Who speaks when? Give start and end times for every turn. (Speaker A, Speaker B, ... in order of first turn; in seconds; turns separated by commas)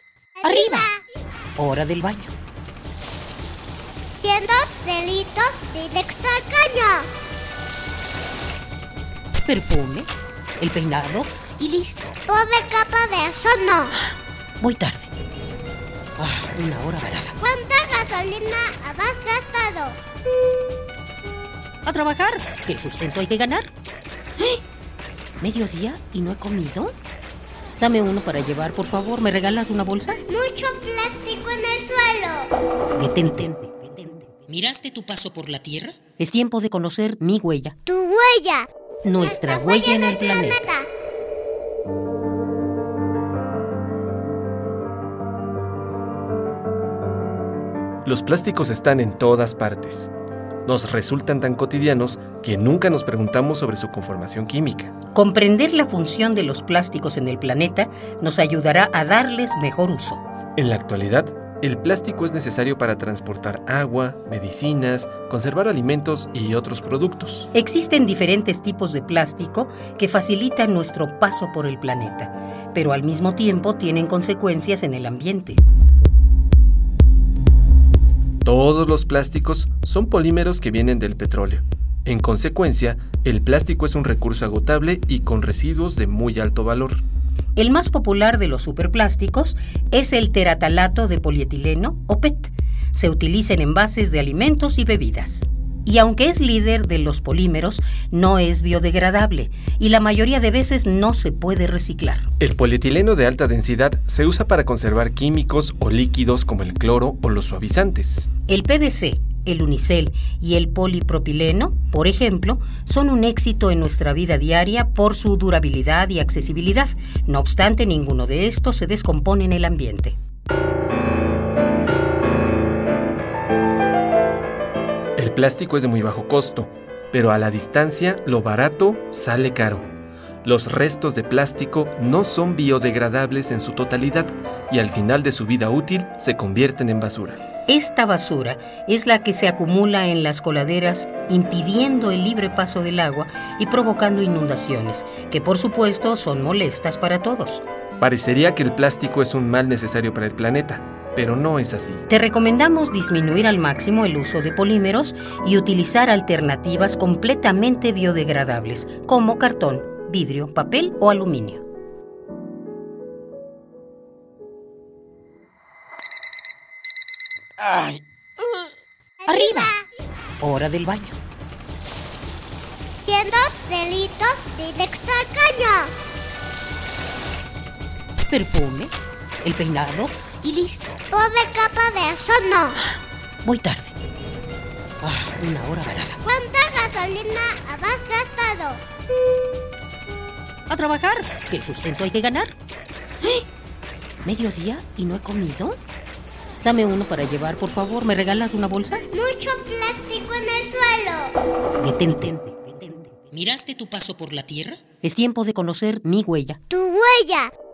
Speaker A: 0.4-1.0, Speaker B: 0.4-0.9, Speaker B: 1.6-2.3, Speaker A: 4.2-7.1, Speaker B: 9.4-12.2, Speaker A: 12.3-13.9, Speaker B: 14.6-15.1, Speaker B: 16.2-17.4, Speaker A: 17.4-20.0, Speaker B: 21.9-23.7, Speaker B: 25.4-26.9, Speaker B: 27.8-30.2, Speaker A: 30.3-32.5, Speaker B: 33.0-37.8, Speaker A: 37.9-38.7, Speaker B: 39.0-40.7, Speaker A: 39.2-40.9, Speaker C: 48.0-50.1, Speaker C: 50.6-55.0, Speaker B: 55.1-60.2, Speaker C: 60.6-67.5, Speaker B: 67.5-75.6, Speaker C: 78.5-87.0, Speaker B: 87.6-102.3, Speaker C: 102.4-108.3, Speaker B: 108.5-120.2, Speaker C: 125.2-129.9, Speaker C: 130.4-137.4, Speaker B: 137.7-147.6, Speaker C: 148.0-152.0, Speaker B: 152.1-161.6, Speaker A: 169.2-169.8, Speaker B: 169.3-169.8, Speaker B: 170.4-171.2, Speaker A: 173.1-175.9, Speaker B: 178.2-181.0, Speaker A: 181.1-182.8, Speaker B: 183.4-183.9, Speaker B: 185.0-186.2, Speaker A: 186.2-188.8, Speaker B: 190.7-192.6, Speaker B: 194.2-195.8, Speaker B: 196.6-199.1, Speaker A: 199.1-201.3, Speaker B: 201.8-206.6, Speaker A: 206.7-207.5